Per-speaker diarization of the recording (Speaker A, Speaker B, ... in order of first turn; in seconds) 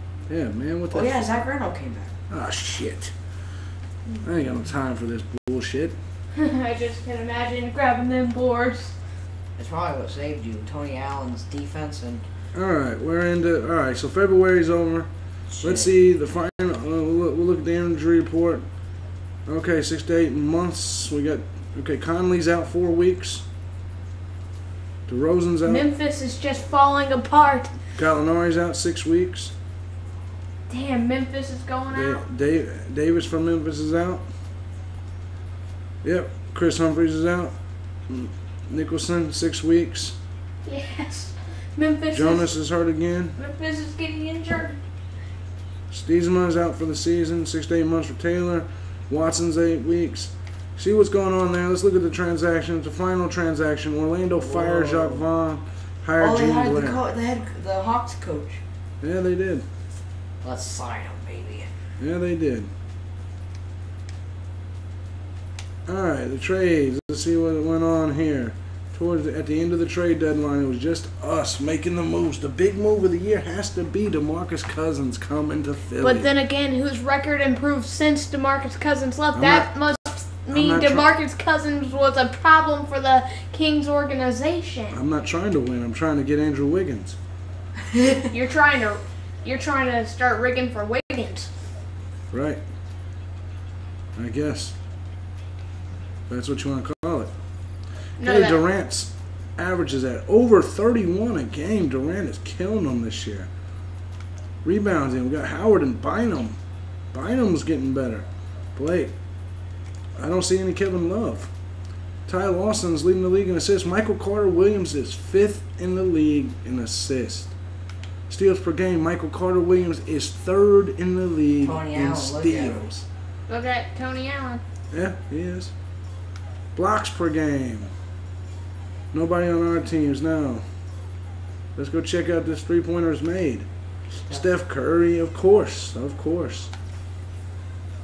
Speaker A: 0.3-1.3, 2.3-3.1, 4.2-6.0, 12.5-15.1, 15.6-18.7, 19.5-23.4, 25.1-25.9, 28.0-29.5, 31.9-34.2, 36.0-37.5, 38.1-40.2, 42.1-43.4, 45.9-57.0, 59.0-59.6, 62.0-62.7, 65.9-76.3, 79.3-79.8, 80.5-81.1, 84.9-87.2, 92.3-92.6, 94.2-94.8, 96.3-97.3, 98.2-103.5, 104.6-106.6, 107.1-109.1, 110.2-111.5, 112.3-117.5, 118.3-123.1, 124.9-125.7, 126.8-127.9, 129.1-130.6, 131.8-133.7, 134.3-136.7
Speaker B: 0.9-2.2, 9.6-12.2, 15.5-15.9, 54.4-55.2, 56.2-58.6, 60.4-61.7, 87.8-88.3, 121.6-122.8
Speaker C: 6.3-8.9, 25.6-27.7, 30.7-32.2, 40.6-42.5, 43.4-44.8, 76.0-85.0, 88.3-91.5, 98.2-98.6, 123.5-124.6